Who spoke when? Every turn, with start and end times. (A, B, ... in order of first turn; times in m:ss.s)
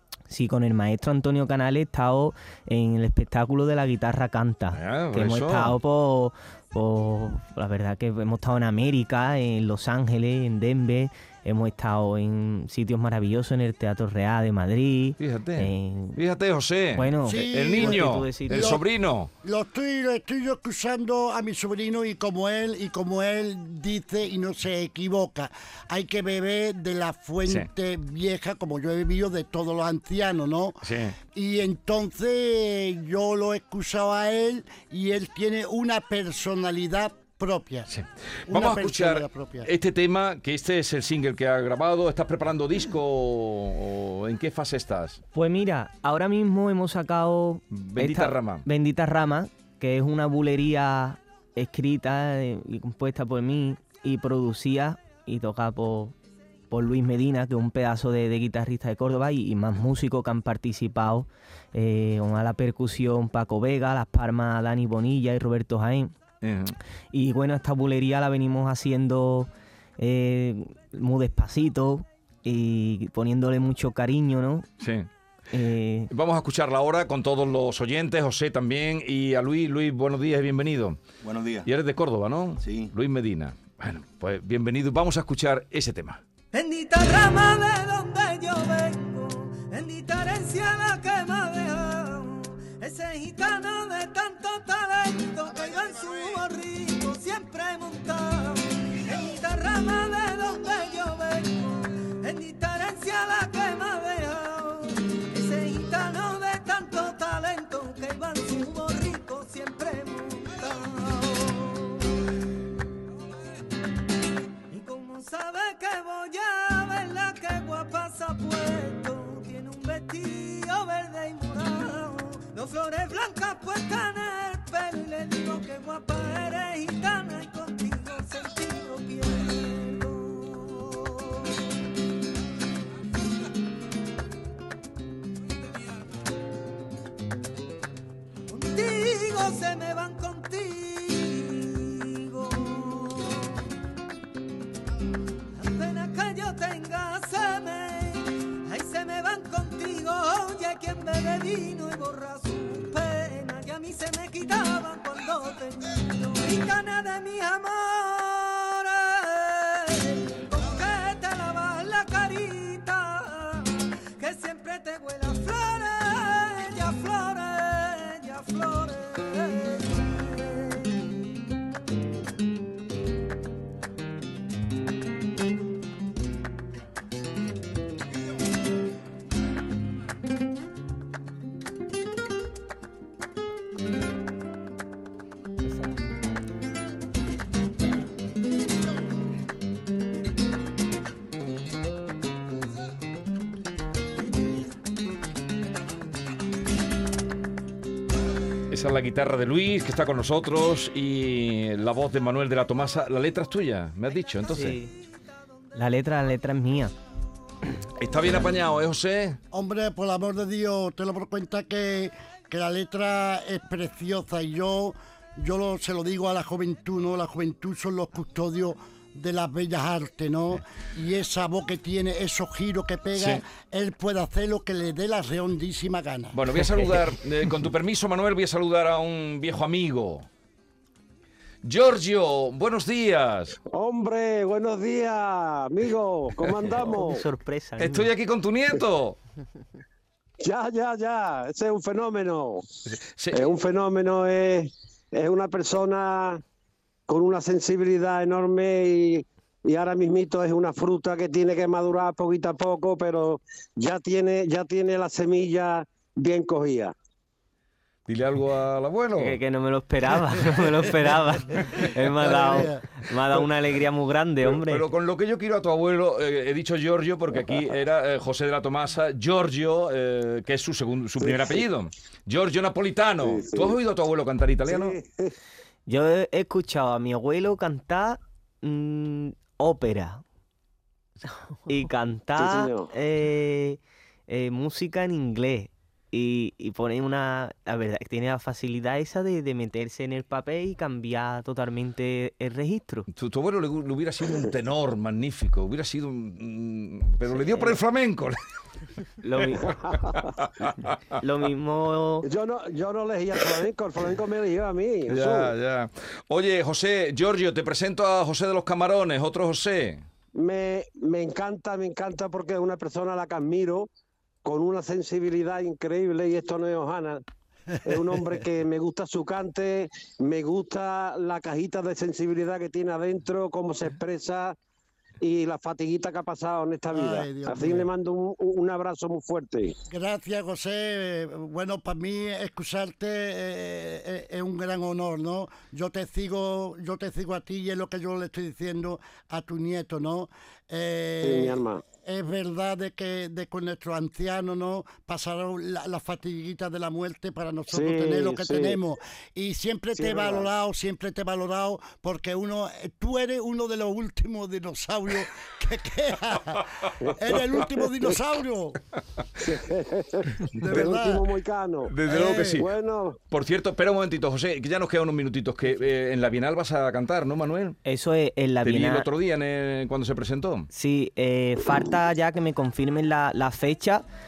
0:00.3-0:16.2 A
0:04.7-0:05.8 B
0:15.2-0:19.3 B
0:16.9-0:18.8 A
0:17.2-0:18.8 C
0:19.4-0:30.8 C
0:30.8-0:31.2 B
0:31.3-0:37.9 C
0:37.9-0:45.2 B
0:38.5-0:39.7 C
0:45.3-0:56.2 A
0:47.7-0:48.7 B
0:56.7-1:06.1 A
1:06.4-1:06.8 B
1:07.1-1:14.7 A
1:14.8-1:15.1 B
1:15.5-1:16.1 A
1:16.1-1:26.2 B
1:26.5-1:52.0 D
1:54.7-2:11.6 D
2:18.5-2:23.6 D
2:25.6-2:51.0 D
3:18.7-3:24.8 B
3:24.5-3:24.9 A
3:25.7-3:26.9 A
3:28.0-3:29.4 B
3:29.5-3:46.4 C
3:43.1-3:43.4 B
3:46.3-3:50.3 B
3:51.6-3:53.6 B
3:53.7-3:57.2 E
3:56.8-3:58.1 A
3:57.8-3:59.2 B
4:00.4-4:02.7 E
4:02.9-4:03.5 B
4:03.3-4:06.4 E
4:07.1-4:16.9 E
4:18.1-4:19.4 B
4:19.2-4:24.9 A
4:22.2-4:22.9 C
4:24.5-4:35.0 B
4:31.2-4:31.6 E
4:33.2-4:33.8 E
4:34.7-4:35.4 E
4:35.9-4:40.2 A
4:41.7-4:53.1 A
4:42.4-4:42.9 E
4:53.1-4:58.4 B
4:57.3-4:57.8 A
4:59.2-4:59.8 A
4:59.7-5:01.0 B
4:59.7-5:00.3 E
5:01.2-5:02.3 A
5:02.2-5:05.5 E
5:05.1-5:10.0 B
5:10.4-5:13.9 E
5:14.4-5:17.2 E
5:17.8-5:24.6 E
5:25.2-5:29.8 E
5:26.9-5:27.9 C
5:29.9-5:58.8 C
5:41.2-5:41.8 E
5:47.7-5:48.8 E
5:50.0-5:50.5 E
5:59.4-6:03.2 E
6:00.6-6:01.3 C
6:01.9-6:02.7 B
6:02.1-6:02.6 C
6:03.3-6:07.8 B
6:07.8-6:09.1 A
6:08.6-6:10.7 B
6:10.7-6:14.0 A